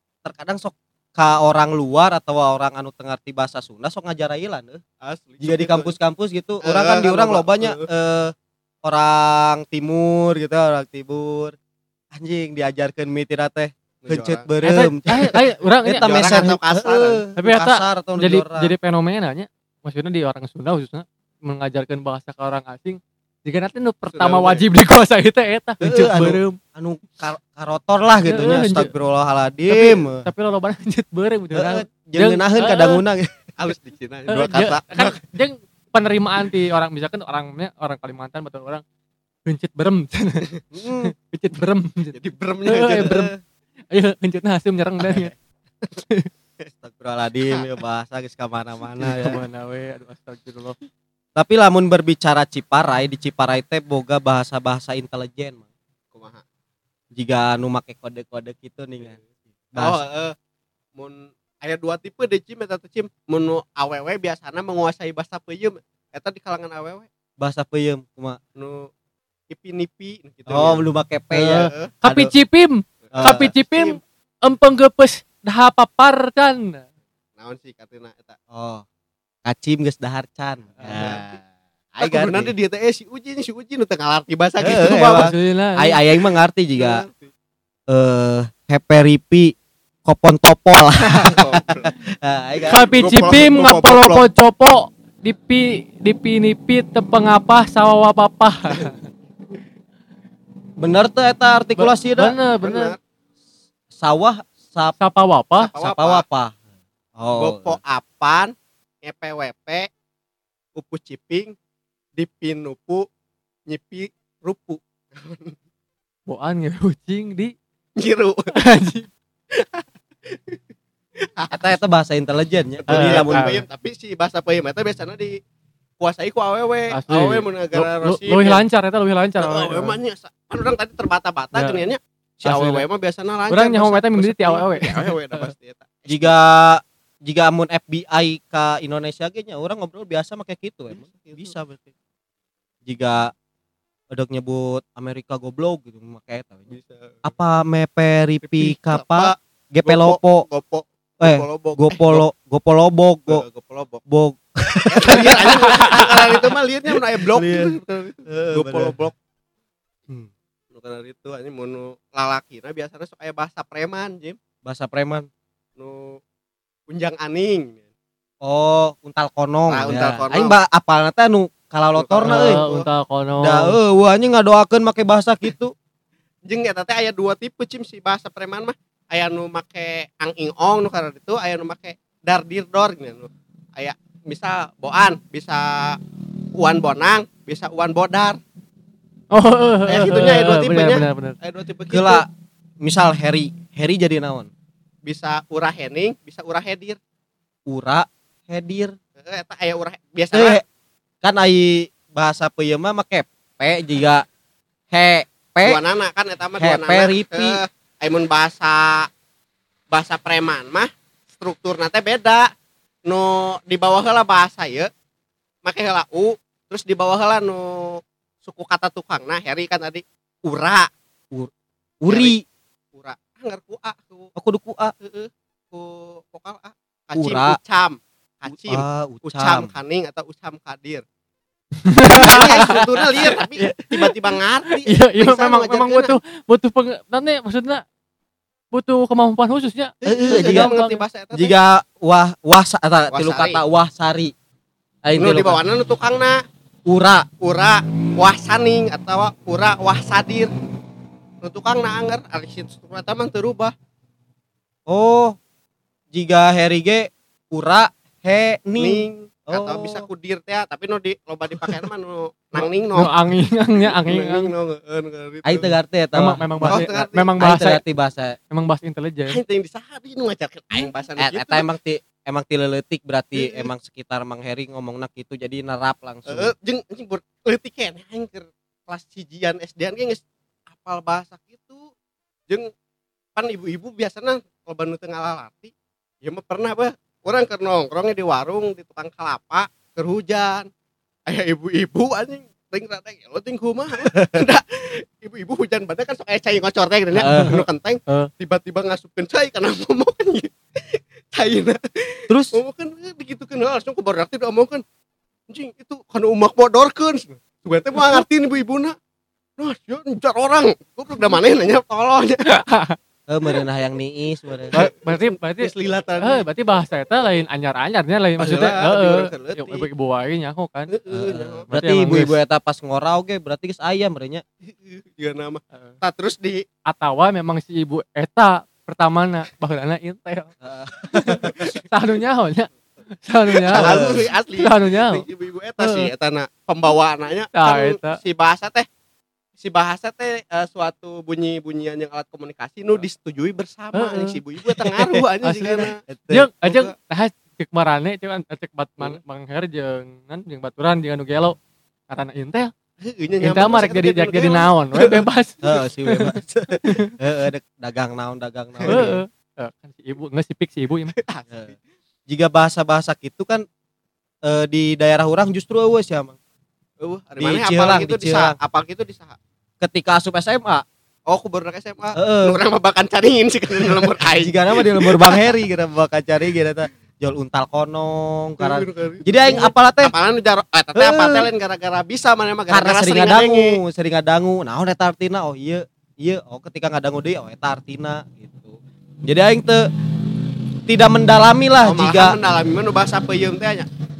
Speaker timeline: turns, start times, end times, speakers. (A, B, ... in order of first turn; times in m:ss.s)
0:00.2-0:04.8 A
0:05.0-0:05.9 B
0:05.4-0:11.6 A
0:06.6-0:07.9 B
0:12.1-0:15.3 A
0:14.0-0:14.5 B
0:14.6-0:16.5 C
0:15.8-0:18.7 A
0:16.0-0:17.2 B
0:17.4-0:26.6 C
0:24.1-0:24.6 B
0:25.8-0:30.2 A
0:28.2-0:28.9 C
0:29.7-0:33.0 C
0:31.5-0:33.4 A
0:33.6-0:35.2 B
0:34.3-0:38.8 C
0:39.4-0:43.3 C
0:40.7-0:41.1 A
0:42.1-0:43.3 B
0:43.9-0:45.3 C
0:46.8-0:49.4 A
0:49.0-0:50.8 C
0:51.4-0:55.6 A
0:56.1-0:56.4 B
0:57.1-0:59.2 A
0:59.7-1:00.0 A
0:59.8-1:00.3 B
1:01.0-1:07.1 B
1:07.4-1:08.4 A
1:08.6-1:08.9 B
1:09.5-1:11.9 B
1:10.5-1:12.3 A
1:11.5-1:16.8 C
1:13.1-1:14.0 B
1:13.1-1:13.5 A
1:17.4-1:18.4 B
1:18.5-1:18.8 A
1:19.4-1:21.4 A
1:20.8-1:21.4 B
1:20.8-1:21.1 C
1:21.9-1:22.5 A
1:22.0-1:25.3 B
1:24.6-1:27.0 A
1:24.8-1:26.0 C
1:26.7-1:27.3 B
1:27.9-1:29.5 A
1:30.0-1:32.9 A
1:31.1-1:31.9 B
1:32.7-1:39.0 C
1:33.0-1:34.2 B
1:40.8-1:42.3 A
1:41.8-1:42.9 C
1:42.6-1:43.0 B
1:43.9-1:45.0 A
1:45.0-1:45.7 C
1:45.6-1:46.2 B
1:45.8-1:46.5 A
1:47.2-1:47.8 A
1:47.4-1:49.9 B
1:50.7-1:51.5 B
1:52.2-1:53.1 B
1:53.7-1:55.5 B
1:56.3-1:57.5 C
1:58.0-1:58.6 B
1:58.5-1:59.1 C
1:59.5-2:00.6 B
2:01.4-2:01.8 B
2:01.5-2:03.4 A
2:02.8-2:05.4 B
2:02.9-2:03.6 C
2:06.0-2:08.6 B
2:06.9-2:10.0 C
2:09.4-2:16.3 B
2:11.5-2:11.8 C
2:12.4-2:12.8 C
2:13.5-2:15.5 C
2:16.1-2:21.8 A
2:20.9-2:21.5 B
2:22.8-2:23.3 A
2:24.1-2:26.7 A
2:26.7-2:27.2 B
2:27.2-2:30.4 A
2:28.4-2:32.2 B
2:31.2-2:33.4 A
2:33.3-2:34.0 B
2:34.1-2:37.7 A
2:34.9-2:39.1 B
2:35.7-2:36.0 C
2:38.3-2:38.9 A
2:40.7-2:44.4 B
2:44.6-2:45.3 A
2:45.8-2:46.2 B
2:46.9-2:47.9 B
2:48.4-2:52.7 A
2:49.7-2:50.5 B
2:52.0-2:52.8 B
2:52.2-2:53.8 C
2:53.4-2:55.7 A
2:56.4-3:06.0 B
3:06.5-3:08.4 B
3:09.3-3:11.4 C
3:09.9-3:12.2 B
3:11.9-3:12.3 A
3:12.8-3:14.5 A
3:15.0-3:17.0 B
3:17.7-3:19.0 A
3:19.2-3:20.6 B
3:20.3-3:20.6 A
3:21.2-3:24.2 A
3:24.9-3:25.8 A
3:25.6-3:29.1 B
3:26.6-3:27.6 A
3:29.9-3:32.5 B
3:33.0-3:34.9 B
3:35.6-3:40.9 B
3:42.0-3:42.4 A
3:42.1-3:42.3 B
3:42.9-3:44.3 B
3:44.3-3:44.9 A
3:45.0-3:51.0 B
3:47.2-3:47.6 A
3:48.5-3:49.7 A
3:51.8-3:54.1 C
3:52.0-3:56.2 B
3:52.1-3:53.4 A
3:54.7-3:57.8 C
3:58.7-4:01.0 C
4:00.0-4:01.6 B
4:00.0-4:00.7 A
4:01.3-4:04.3 A
4:03.1-4:03.6 B
4:05.0-4:05.6 A
4:05.2-4:06.4 B
4:06.8-4:07.3 A
4:07.4-4:10.5 B
4:11.4-4:13.7 B
4:14.9-4:15.4 A
4:16.1-4:20.1 A
4:18.8-4:23.1 B
4:22.6-4:24.5 C
4:23.9-4:25.7 B
4:25.4-4:28.4 A
4:26.1-4:27.8 C
4:26.6-4:27.3 B
4:28.5-4:29.4 C
4:29.3-4:31.6 B
4:30.7-4:36.5 A
4:33.3-4:33.7 B
4:36.3-4:41.9 B
4:43.4-4:50.7 B
4:51.3-5:04.8 B
4:57.1-4:57.6 A
4:57.2-4:58.3 C
5:02.3-5:02.6 A
5:05.5-5:08.9 B
5:09.6-5:12.4 B
5:12.4-5:13.0 C
5:13.3-5:14.7 A
5:14.7-5:16.4 B
5:14.7-5:20.9 C
5:18.4-5:19.9 B
5:20.9-5:21.7 B
5:21.1-5:24.4 A
5:21.7-5:22.4 C
5:24.6-5:26.6 B
5:26.8-5:30.5 C
5:30.6-5:31.7 A
5:31.1-5:35.2 C
5:33.7-5:38.9 B
5:33.7-5:34.2 A
5:35.8-5:36.1 C
5:37.5-5:38.2 C
5:39.6-5:46.0 B
5:43.9-5:51.6 C
5:46.1-5:46.5 A
5:46.6-5:46.9 B
5:52.1-5:52.7 C
5:53.0-5:55.2 B
5:53.4-5:57.1 C
5:55.6-5:59.2 A
5:58.8-5:59.1 B
5:58.9-6:01.1 C
6:01.2-6:01.7 B
6:02.3-6:03.6 A
6:04.4-6:06.4 A
6:07.0-6:09.4 B
6:07.4-6:08.6 A
6:09.8-6:10.8 A
6:11.3-6:15.6 B
6:12.1-6:12.6 A
6:14.2-6:20.1 A
6:18.6-6:23.8 B
6:20.9-6:21.5 A
6:22.7-6:32.4 A
6:31.8-6:33.9 B